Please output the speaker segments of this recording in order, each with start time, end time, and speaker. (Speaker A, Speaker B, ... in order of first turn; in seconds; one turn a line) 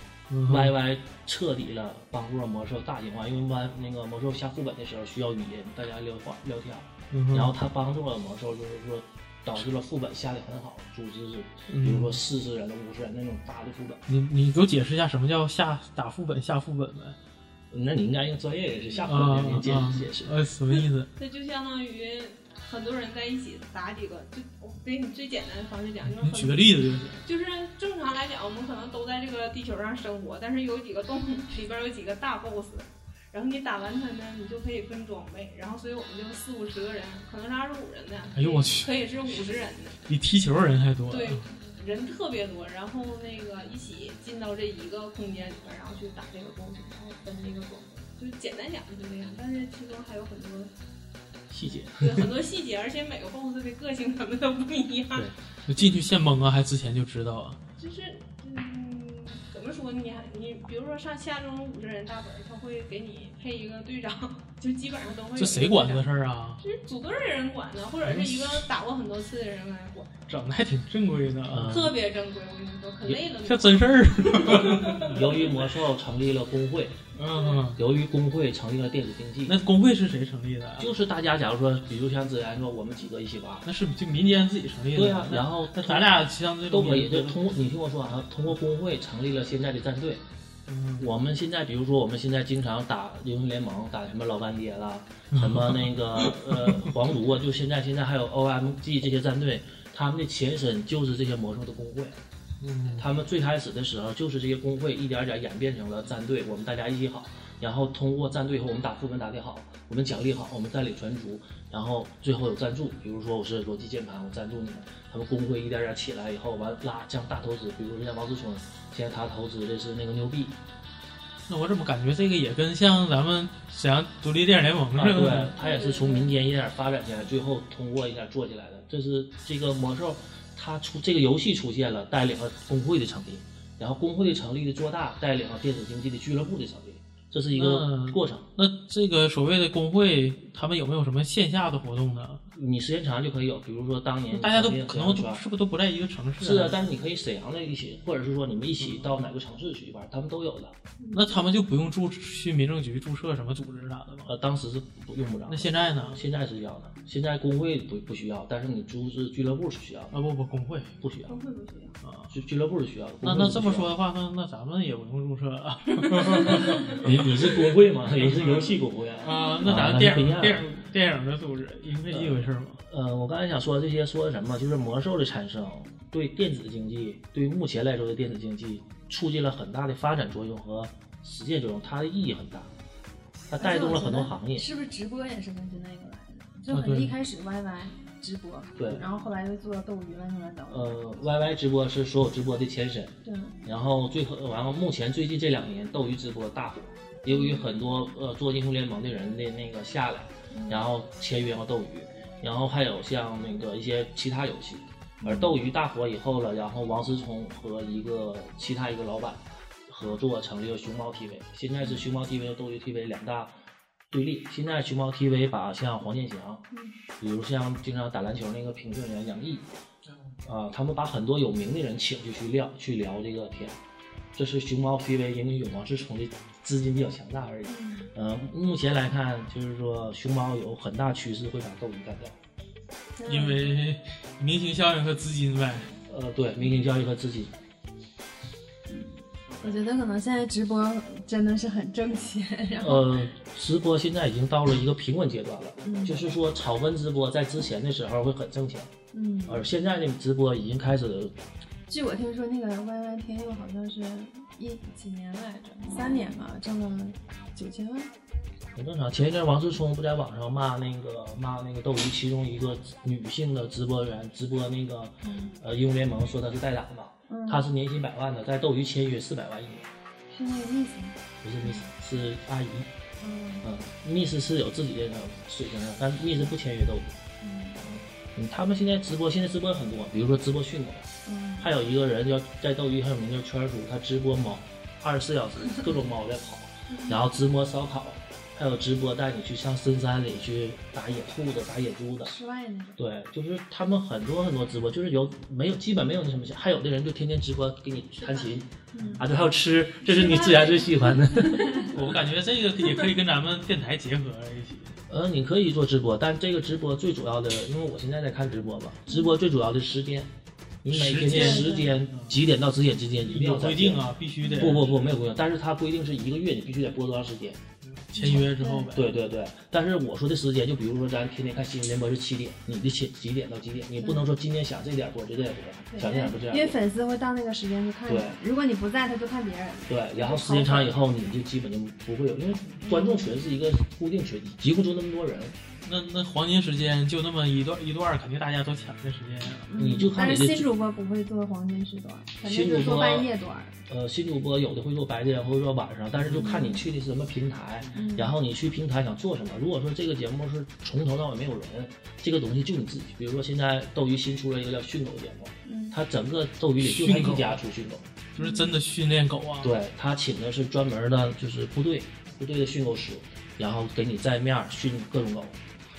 Speaker A: 0.3-0.7
Speaker B: 0.5-14.0
Speaker A: 7.1-7.5
Speaker A: 11.7-12.2
Speaker A: 14.1-17.1
Speaker B: 17.7-20.3
Speaker C: 18.9-19.4
Speaker A: 19.1-21.1
Speaker C: 21.2-40.0
Speaker A: 26.0-27.2
Speaker A: 38.3-38.9
Speaker A: 40.1-41.4
Speaker C: 41.1-50.7
Speaker B: 51.5-52.3
Speaker C: 51.7-56.0
Speaker A: 55.7-57.6
Speaker C: 57.8-66.0
Speaker A: 65.3-66.6
Speaker C: 66.6-70.1
Speaker A: 68.0-68.7
Speaker A: 70.3-71.8
Speaker B: 71.5-72.0
Speaker C: 71.6-75.5
Speaker A: 73.4-75.3
Speaker B: 74.5-77.0
Speaker A: 77.1-77.8
Speaker C: 77.3-77.6
Speaker B: 77.8-79.6
Speaker A: 79.5-80.9
Speaker B: 80.8-83.7
Speaker A: 83.6-87.4
Speaker B: 84.9-90.2
Speaker A: 90.7-91.1
Speaker B: 91.0-102.2
Speaker A: 95.3-96.9
Speaker A: 102.6-103.1
Speaker B: 103.0-120.6
Speaker A: 121.5-125.5
Speaker B: 124.9-138.5
Speaker C: 125.5-126.3
Speaker A: 137.5-142.4
Speaker B: 142.5-145.4
Speaker A: 144.3-146.8
Speaker B: 146.4-150.8
Speaker A: 148.8-149.2
Speaker C: 151.0-151.4
Speaker A: 151.1-154.3
Speaker B: 154.2-160.1
Speaker A: 155.5-156.2
Speaker A: 160.1-160.9
Speaker B: 161.0-161.3
Speaker C: 161.3-162.0
Speaker A: 162.0-162.3
Speaker B: 162.3-163.9
Speaker A: 163.2-167.1
Speaker B: 166.4-170.7
Speaker A: 168.1-172.8
Speaker B: 172.1-182.7
Speaker B: 183.5-184.7
Speaker D: 183.6-191.2
Speaker A: 186.7-187.1
Speaker B: 188.8-189.0
Speaker B: 190.7-213.5
Speaker D: 193.2-193.6
Speaker D: 197.3-197.6
Speaker D: 200.5-200.8
Speaker D: 205.2-205.6
Speaker B: 214.1-216.6
Speaker B: 217.2-219.7
Speaker B: 220.4-223.8
Speaker B: 224.3-232.4
Speaker D: 227.6-228.1
Speaker D: 233.2-233.7
Speaker A: 233.2-235.9
Speaker B: 236.1-237.5
Speaker D: 238.9-243.2
Speaker B: 242.8-248.9
Speaker D: 245.8-246.2
Speaker D: 249.1-249.7
Speaker B: 249.5-251.3
Speaker D: 251.9-258.1
Speaker B: 258.7-269.9
Speaker D: 265.2-265.5
Speaker D: 267.3-267.6
Speaker D: 270.3-271.9
Speaker B: 271.4-272.9
Speaker D: 273.2-273.7
Speaker B: 273.6-277.1
Speaker D: 277.4-277.8
Speaker B: 277.8-292.3
Speaker D: 281.2-281.7
Speaker D: 286.9-287.2
Speaker D: 292.2-293.0
Speaker B: 292.9-302.2
Speaker D: 298.9-299.2
Speaker C: 300.0-301.1
Speaker A: 301.9-304.9
Speaker B: 305.1-310.3
Speaker D: 309.1-309.3
Speaker B: 310.8-317.6
Speaker A: 310.9-312.4
Speaker D: 311.3-311.9
Speaker A: 313.2-315.0
Speaker D: 314.4-314.7
Speaker A: 317.9-319.1
Speaker D: 318.2-318.9
Speaker B: 318.2-326.8
Speaker D: 324.0-324.2
Speaker D: 325.9-330.9
Speaker B: 328.1-328.4
Speaker B: 329.9-335.6
Speaker D: 332.8-333.3
Speaker A: 335.8-339.7
Speaker D: 339.7-343.7
Speaker B: 339.7-340.7
Speaker B: 342.4-343.3
Speaker B: 343.9-358.1
Speaker A: 346.2-346.5
Speaker D: 346.3-346.8
Speaker D: 347.9-348.3
Speaker D: 355.6-356.0
Speaker A: 356.8-357.6
Speaker A: 358.3-359.7
Speaker D: 358.4-358.7
Speaker B: 359.6-365.6